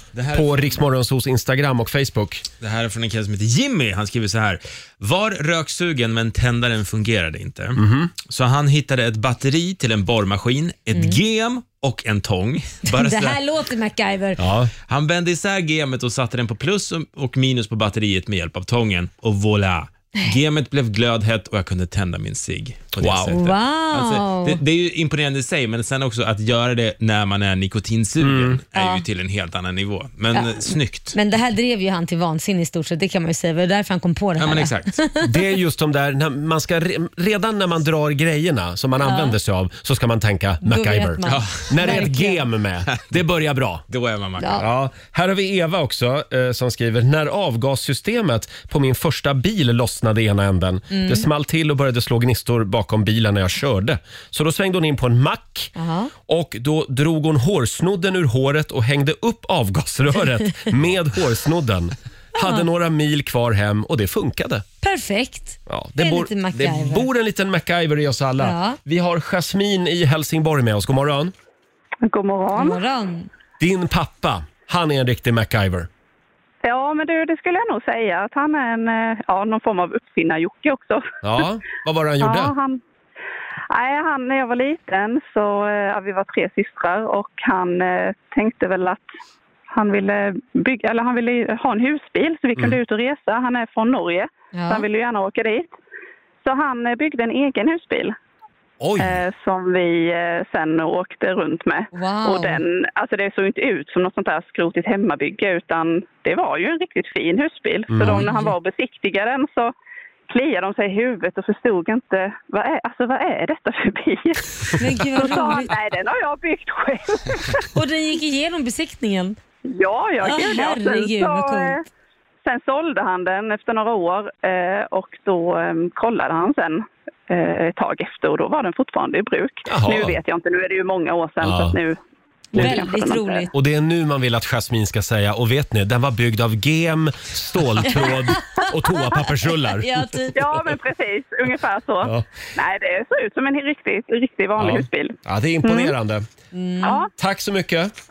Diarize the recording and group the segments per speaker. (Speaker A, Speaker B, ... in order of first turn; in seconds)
Speaker A: 0.1-0.8, 2.6-13.4, 14.9-31.1, 34.4-35.0, 41.3-41.6, 43.9-44.6
Speaker B: 0.3-2.4, 7.8-8.1, 14.4-14.7, 23.0-23.3, 28.2-28.6, 35.2-43.8, 44.6-55.7, 56.3-64.6, 65.7-71.3, 73.6-75.9, 81.2-82.5, 98.8-99.2, 107.9-108.2, 129.7-130.2, 131.4-131.8, 133.5-140.4, 142.0-142.3, 144.6-146.3, 147.2-147.9
Speaker C: 12.9-14.4, 23.3-24.6, 28.7-29.0, 30.3-35.3, 39.0-39.3, 40.6-42.4, 44.4-44.6, 50.9-51.2, 55.8-56.1, 62.4-62.6, 64.8-67.1, 68.4-68.8, 72.5-73.3, 94.5-94.8, 101.9-102.6, 108.0-108.5, 114.8-115.7, 117.7-119.3, 120.2-121.8, 132.5-133.5, 137.9-139.0, 139.8-140.4, 146.5-147.0
Speaker D: 72.0-72.8, 76.6-81.0, 82.2-82.8, 83.7-89.1, 89.7-95.7, 96.4-98.1, 99.0-109.7, 110.3-117.6, 119.7-121.8, 122.4-132.0, 132.5-133.5, 140.3-145.9, 146.8-147.1